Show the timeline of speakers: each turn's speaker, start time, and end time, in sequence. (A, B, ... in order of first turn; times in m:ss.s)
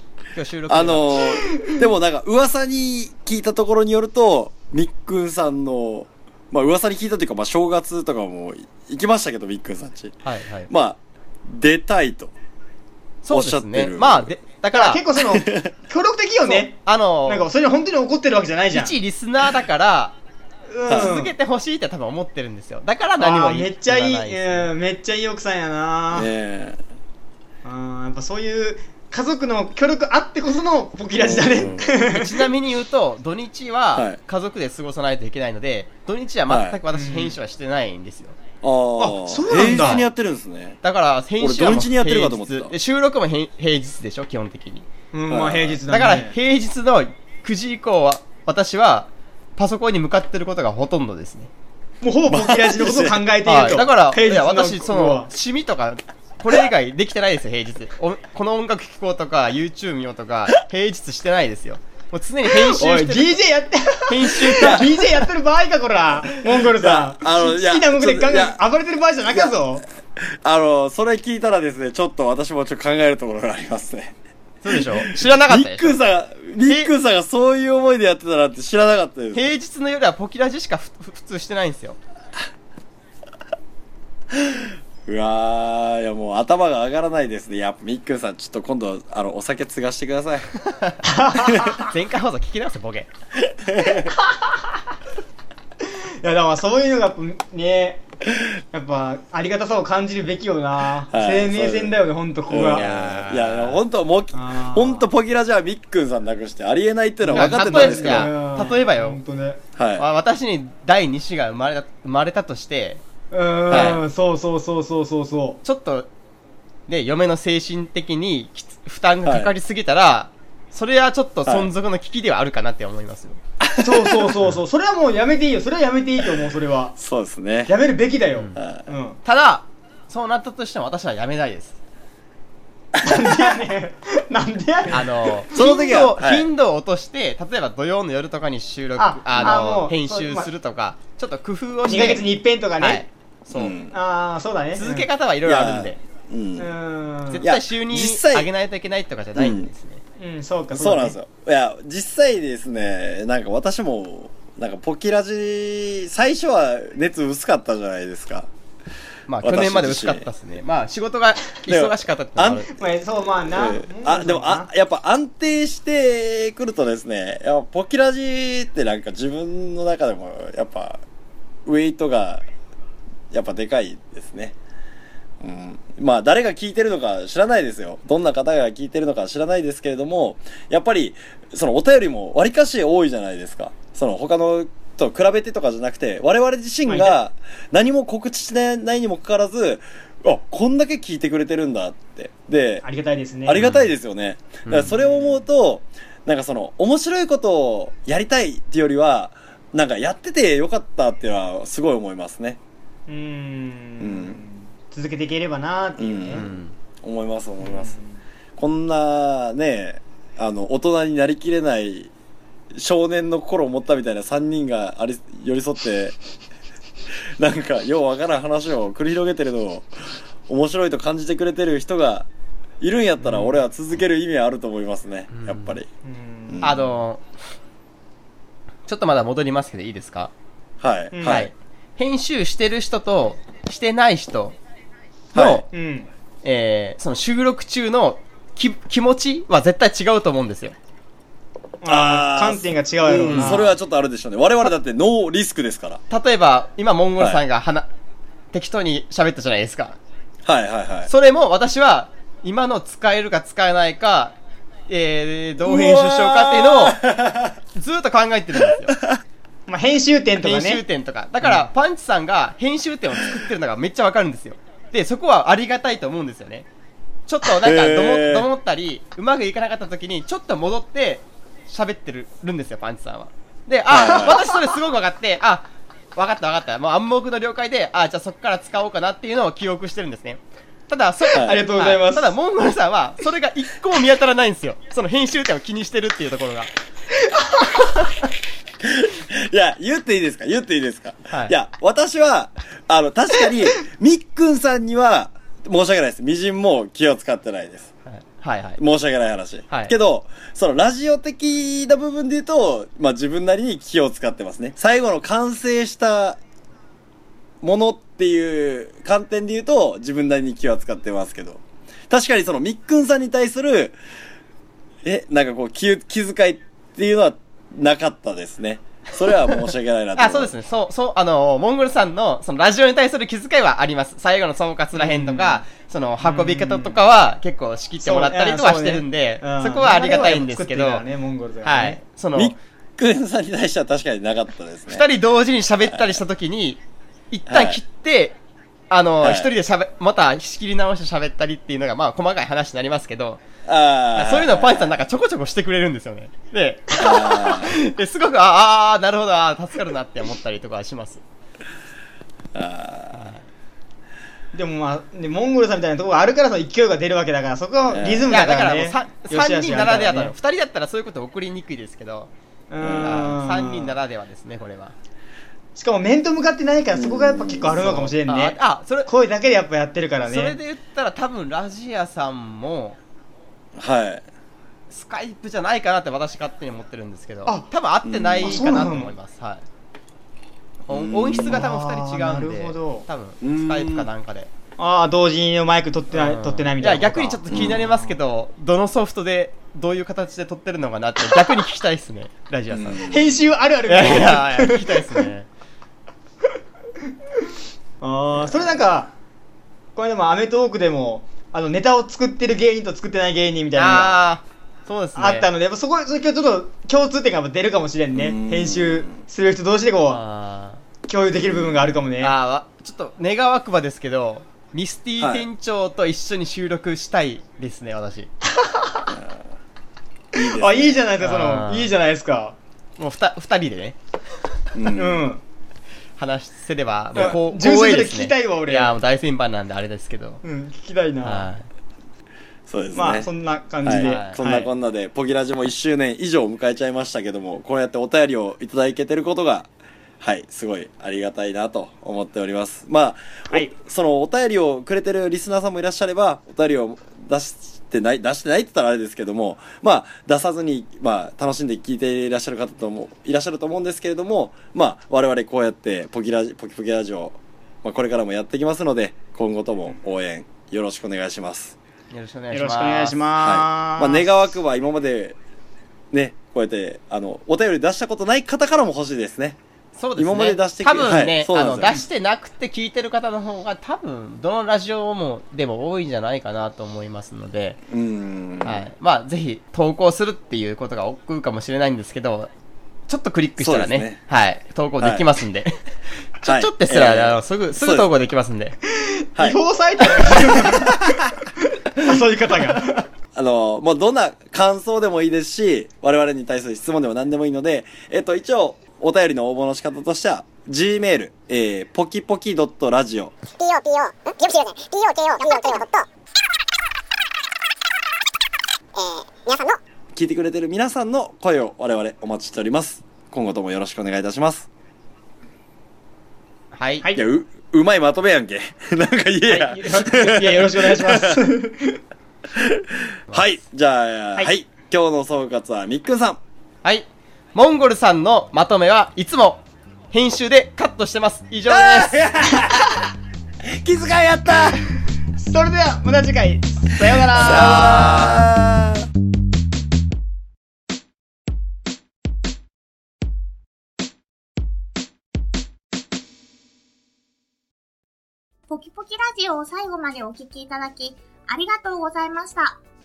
0:00.3-0:01.2 A
0:00.7-0:12.3 B
0:10.2-0:10.7 A
0:13.2-0:15.0 A
0:13.3-0:14.3 B
0:14.7-0:19.0 C
0:15.2-0:15.7 B
0:16.4-0:17.4 A
0:18.7-0:20.1 A
0:20.7-0:21.3 C
0:20.9-0:24.7 A
0:23.2-0:26.3 C
0:26.1-0:26.8 B
0:27.6-0:32.4 C
0:31.2-0:31.9 B
0:32.0-0:38.4 A
0:36.5-0:36.8 B
0:36.9-0:37.4 C
0:38.6-0:40.8 B
0:39.0-0:40.0 C
0:39.7-0:40.0 A
0:40.8-0:44.9 A
0:41.4-0:42.7 B
0:45.1-0:46.4 C
0:45.3-0:45.8 B
0:45.9-0:51.5 A
0:52.0-0:55.3 C
0:52.3-0:53.2 B
0:53.4-1:03.4 A
1:02.5-1:09.8 C
1:04.1-1:05.0 A
1:04.5-1:04.9 B
1:06.6-1:08.6 B
1:10.2-1:14.1 B
1:14.6-1:16.0 A
1:14.7-1:19.5 B
1:16.6-1:16.9 A
1:19.3-1:22.0 A
1:24.3-1:30.5 B
1:30.6-1:31.0 A
1:31.0-1:31.9 C
1:31.4-1:31.8 B
1:31.7-1:33.1 A
1:33.5-1:34.1 B
1:34.0-1:34.6 C
1:36.2-1:38.0 C
1:38.7-1:42.9 C
1:41.1-1:48.3 B
1:42.6-1:43.8 A
1:44.3-1:45.1 C
1:47.2-1:49.6 C
1:47.3-1:49.2 A
1:49.8-1:50.0 B
1:50.0-1:53.0 A
1:53.3-1:55.6 C
1:53.7-1:54.0 A
1:55.6-1:56.1 A
1:56.9-2:03.4 A
1:59.2-1:59.5 B
2:01.4-2:01.7 B
2:03.6-2:04.4 B
2:03.7-2:07.0 C
2:07.0-2:07.7 B
2:07.7-2:09.2 C
2:08.3-2:08.6 A
2:08.6-2:08.8 B
2:09.2-2:11.8 A
2:13.0-2:13.2 B
2:13.0-2:15.7 C
2:14.9-2:22.2 A
2:15.5-2:16.5 B
2:19.0-2:20.5 C
2:21.8-2:23.0 C
2:22.8-2:23.7 A
2:23.5-2:23.9 B
2:23.9-2:25.1 C
2:24.8-2:26.0 A
2:25.4-2:26.7 B
2:26.6-2:27.5 C
2:27.3-2:30.0 A
2:27.4-2:28.5 B
2:29.4-2:29.7 B
2:30.2-2:31.2 C
2:30.7-2:38.5 B
2:39.3-2:42.7 A
2:39.4-2:40.3 B
2:41.7-2:42.7 B
2:42.7-2:44.7 C
2:43.5-2:51.0 B
2:51.6-2:52.4 B
2:53.3-2:54.5 B
2:55.4-3:12.8 B
3:06.9-3:07.2 C
3:12.8-3:13.7 C
3:13.4-3:22.6 B
3:13.6-3:13.9 A
3:14.6-3:14.9 A
3:14.8-3:15.4 C
3:23.1-3:26.5 C
3:24.0-3:24.4 B
3:26.0-3:26.5 B
3:26.3-3:26.7 A
3:27.0-3:28.0 B
3:27.6-3:28.1 C
3:28.6-3:32.1 B
3:32.7-3:36.2 B
3:37.4-3:42.3 B
3:42.8-3:45.9 B
3:45.3-3:45.8 A
3:46.0-3:46.7 C
3:46.5-3:46.8 B
3:46.6-3:47.2 A
3:48.9-3:50.3 A
3:50.8-3:51.5 B
3:51.1-3:51.5 C
3:51.2-3:54.6 A
3:55.3-3:55.6 B
3:55.3-3:55.6 A
3:55.7-3:56.1 C
3:56.4-4:00.8 A
4:01.8-4:03.7 C
4:01.8-4:06.0 B
4:03.1-4:03.6 A
4:06.1-4:07.9 A
4:08.5-4:10.0 A
4:10.4-4:11.1 B
4:11.1-4:14.4 A
4:14.9-4:17.0 A
4:15.6-4:17.6 B
4:17.7-4:18.9 A
4:18.9-4:19.2 B
4:19.7-4:20.8 C
4:20.4-4:26.7 A
4:27.3-4:46.7 A
4:27.4-4:28.5 B
4:33.9-4:34.4 B
4:41.3-4:41.6 B
4:41.3-4:42.3 C
4:48.8-4:57.9 B
4:51.3-4:51.5 A
4:58.0-4:58.8 A
4:58.8-5:06.4 B
5:07.6-5:14.0 B
5:15.0-5:20.5 B
5:20.2-5:31.0 A
5:24.9-5:25.6 C
5:26.2-5:27.0 C
5:28.0-5:32.0 C
5:31.6-5:32.5 A
5:32.3-5:35.0 B
5:34.9-5:36.8 A
5:35.8-5:36.2 B
5:37.3-5:38.4 A
5:37.5-5:37.8 B
5:38.9-5:43.4 A
5:39.2-5:39.5 B
5:43.6-5:45.0 B
5:44.1-5:51.2 A
5:47.0-5:47.8 B
5:52.5-5:53.3 B
5:53.1-5:53.4 A
5:54.5-6:00.3 C
5:57.9-5:58.3 B
5:58.3-6:02.3 A
6:02.7-6:04.0 C
6:02.8-6:03.3 B
6:03.0-6:04.9 A
6:05.8-6:10.6 C
6:06.9-6:08.1 B
6:08.3-6:09.1 A
6:10.2-6:13.0 A
6:13.7-6:14.2 B
6:14.9-6:19.6 A
6:18.0-6:18.8 B
6:18.4-6:19.1 C
6:20.9-6:21.6 B
6:20.9-6:24.5 A
6:21.3-6:23.1 C
6:23.4-6:24.1 B
6:24.8-6:28.1 C
6:26.1-6:33.1 A
6:27.5-6:27.8 B
6:32.7-6:33.4 B
6:33.1-6:35.3 C
6:33.9-6:35.5 A
6:38.0-6:39.1 C
6:38.4-6:38.7 B
6:40.0-6:44.2 C
6:43.8-6:45.5 A
6:45.2-6:50.2 C
6:48.1-6:49.1 B
6:50.1-6:50.8 A
6:51.1-6:52.4 C
6:51.4-6:51.9 B
6:52.2-6:58.3 A
6:55.2-6:55.5 B
6:58.7-6:59.0 C
7:00.3-7:01.0 B
7:00.4-7:02.6 C
7:01.2-7:01.9 A
7:03.0-7:04.0 A
7:04.7-7:05.3 B
7:04.9-7:05.4 C
7:06.2-7:10.4 A
7:07.2-7:08.9 C
7:10.4-7:11.5 C
7:11.2-7:11.6 A
7:12.7-7:13.3 B
7:12.9-7:14.7 C
7:13.8-7:19.7 B
7:14.0-7:14.4 A
7:20.2-7:41.8 B
7:42.1-7:43.2 A
7:42.5-7:44.3 C
7:43.4-7:45.4 B
7:46.1-7:49.6 B
7:50.0-7:57.8 A
7:50.2-7:52.0 B
7:57.9-7:58.8 B
7:58.6-8:02.5 A
8:03.1-8:05.8 A
8:03.6-8:04.2 B
8:05.0-8:05.3 B
8:06.4-8:08.8 A
8:06.4-8:08.1 B
8:08.9-8:13.1 C
8:09.4-8:11.3 B
8:13.3-8:23.3 B
8:23.6-8:26.0 D
8:28.9-8:29.8 D
8:30.1-8:34.7 B
8:36.7-8:37.1 A
8:37.0-8:37.3 C
8:37.1-8:41.5 B
8:39.5-8:42.0 C
8:42.5-8:46.4 B
8:46.8-8:52.2 A
8:51.7-8:53.0 B
8:53.6-8:54.9 B
8:55.4-8:58.4 C
8:57.3-8:59.1 B
9:08.7-9:12.8 E